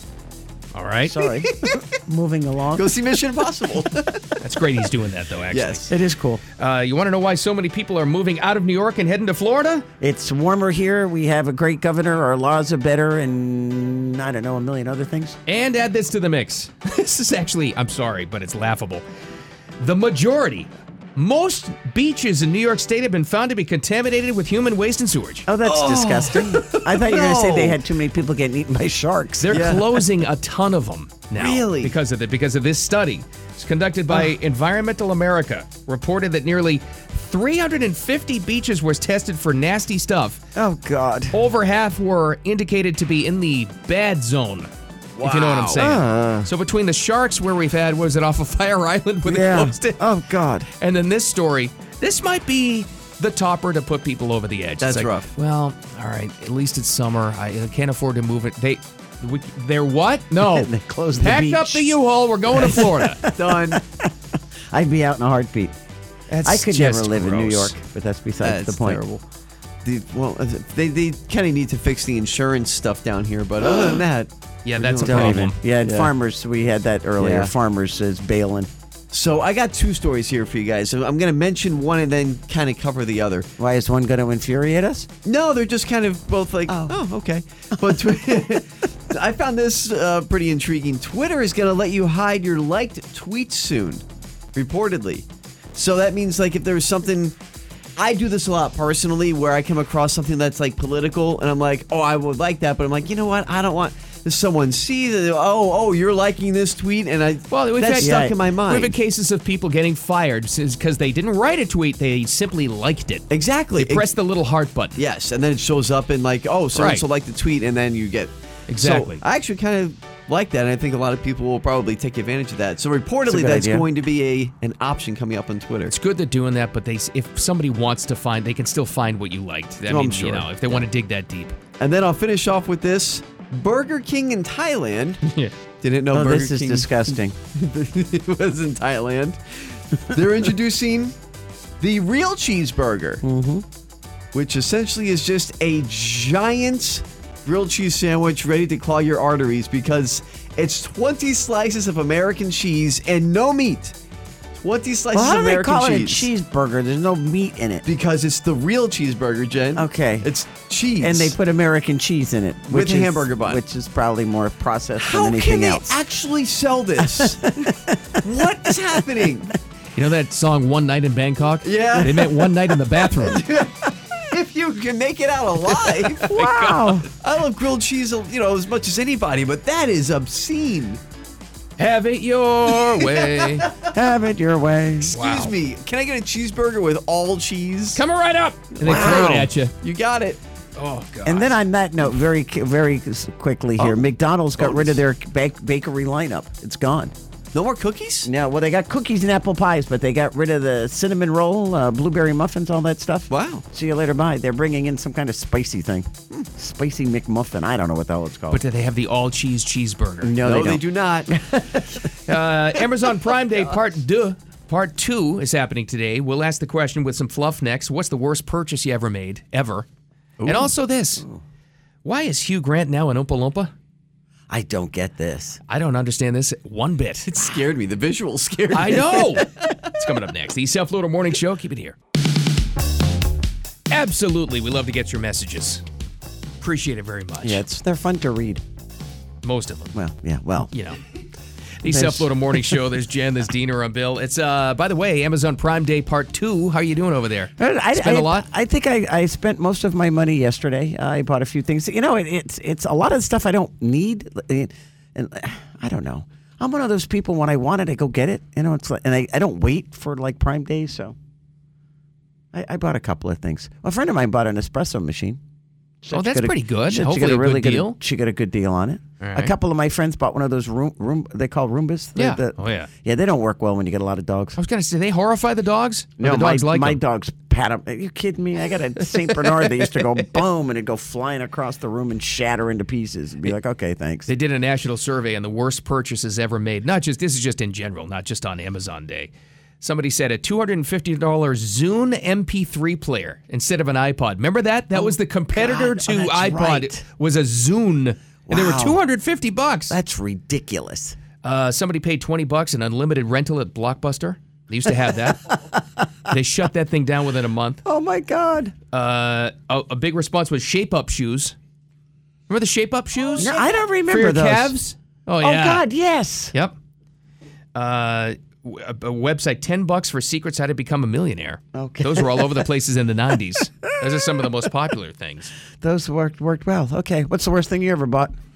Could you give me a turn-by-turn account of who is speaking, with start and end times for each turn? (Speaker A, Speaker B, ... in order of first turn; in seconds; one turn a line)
Speaker A: 0.7-1.2
Speaker B: 1.1-3.0
Speaker C: 1.5-1.8
Speaker C: 2.7-4.4
Speaker A: 4.4-5.9
Speaker C: 5.5-5.9
Speaker B: 5.9-6.4
Speaker A: 6.6-9.8
Speaker B: 10.0-15.4
Speaker A: 15.5-19.0
Speaker A: 19.8-25.5
Speaker B: 25.5-29.7
Speaker C: 25.6-27.8
Speaker A: 29.4-40.4
Speaker C: 29.5-30.0
Speaker C: 31.4-31.9
Speaker B: 40.5-41.4
Speaker A: 41.3-44.7
Speaker C: 45.2-45.9
Speaker A: 45.2-50.0
Speaker B: 45.8-46.5
Speaker B: 49.2-50.7
Speaker A: 50.8-63.2
Speaker C: 54.8-55.3
Speaker B: 60.4-62.0
Speaker B: 62.5-64.1
Speaker C: 63.3-63.8
Speaker B: 64.7-65.7
Speaker A: 66.3-67.8
Speaker B: 66.4-69.0
Speaker C: 68.4-69.2
Speaker C: 69.8-76.1
Speaker A: 74.7-75.6
Speaker B: 75.0-78.7
Speaker C: 77.2-77.5
Speaker C: 79.1-83.5
Speaker B: 83.6-85.1
Speaker C: 85.2-94.0
Speaker B: 86.7-87.0
Speaker B: 87.8-88.4
Speaker C: 94.5-97.3
Speaker C: 98.0-109.0
Speaker A: 107.5-115.0
Speaker B: 108.0-108.3
Speaker C: 113.3-114.1
Speaker C: 115.0-125.9
Speaker A: 116.7-117.0
Speaker A: 118.7-119.2
Speaker B: 123.2-123.9
Speaker A: 125.9-131.6
Speaker C: 129.9-130.9
Speaker C: 131.8-135.2
Speaker A: 135.2-135.6
Speaker C: 135.8-141.2
Speaker B: 136.1-137.4
Speaker C: 141.8-143.2
Speaker B: 143.2-143.7
Speaker C: 144.3-153.9
Speaker C: 154.6-156.3
Speaker B: 155.1-157.8
Speaker C: 157.8-161.3
Speaker B: 159.8-160.3
Speaker B: 161.0-166.0
Speaker C: 162.7-163.6
Speaker C: 165.0-167.7
Speaker B: 167.0-169.3
Speaker C: 168.2-169.6
Speaker A: 170.0-173.4
Speaker C: 171.6-176.3
Speaker B: 172.0-172.2
Speaker B: 176.2-177.1
Speaker A: 176.2-177.1
Speaker C: 177.1-181.0
Speaker A: 181.8-183.7
Speaker C: 182.7-183.9
Speaker B: 183.9-185.2
Speaker C: 185.0-188.0
Speaker A: 185.1-185.5
Speaker A: 187.9-189.7
Speaker C: 188.8-190.4
Speaker B: 188.8-189.5
Speaker A: 190.8-191.6
Speaker B: 191.2-197.1
Speaker C: 193.8-194.0
Speaker C: 194.6-195.0
Speaker C: 197.5-198.3
Speaker B: 198.2-208.6
Speaker C: 203.3-203.7
Speaker A: 208.5-210.3
Speaker B: 210.2-212.1
Speaker C: 210.3-211.3
Speaker A: 212.3-219.9
Speaker C: 220.4-220.7
Speaker A: 220.4-221.2
Speaker B: 221.2-221.4
Speaker A: 222.0-223.7
Speaker B: 224.5-225.6
Speaker A: 225.7-227.3
Speaker C: 227.3-229.9
Speaker A: 228.7-232.0
Speaker A: 233.9-235.8
Speaker A: 236.6-237.6
Speaker B: 237.4-238.6
Speaker A: 239.4-239.9
Speaker B: 239.9-240.7
Speaker A: 240.7-241.0
Speaker A: 241.8-248.5
Speaker B: 241.8-242.9
Speaker B: 247.6-261.1
Speaker B: 262.5-265.4
Speaker B: 266.0-274.6
Speaker A: 266.1-268.0
Speaker A: 269.2-269.5
Speaker A: 272.2-272.9
Speaker A: 274.6-277.0
Speaker B: 276.2-284.3
Speaker A: 284.3-289.3
Speaker A: 289.8-300.0
Speaker B: 294.9-297.0
Speaker B: 298.5-299.0
Speaker B: 299.9-301.2
Speaker A: 301.4-305.6
Speaker B: 305.3-306.3
Speaker A: 306.3-307.8
Speaker B: 307.9-308.8
Speaker A: 308.9-311.6
Speaker A: 312.5-315.8
Speaker B: 313.4-314.7
Speaker B: 315.4-316.5
Speaker A: 317.8-325.5
Speaker B: 321.7-322.6
Speaker B: 325.8-328.3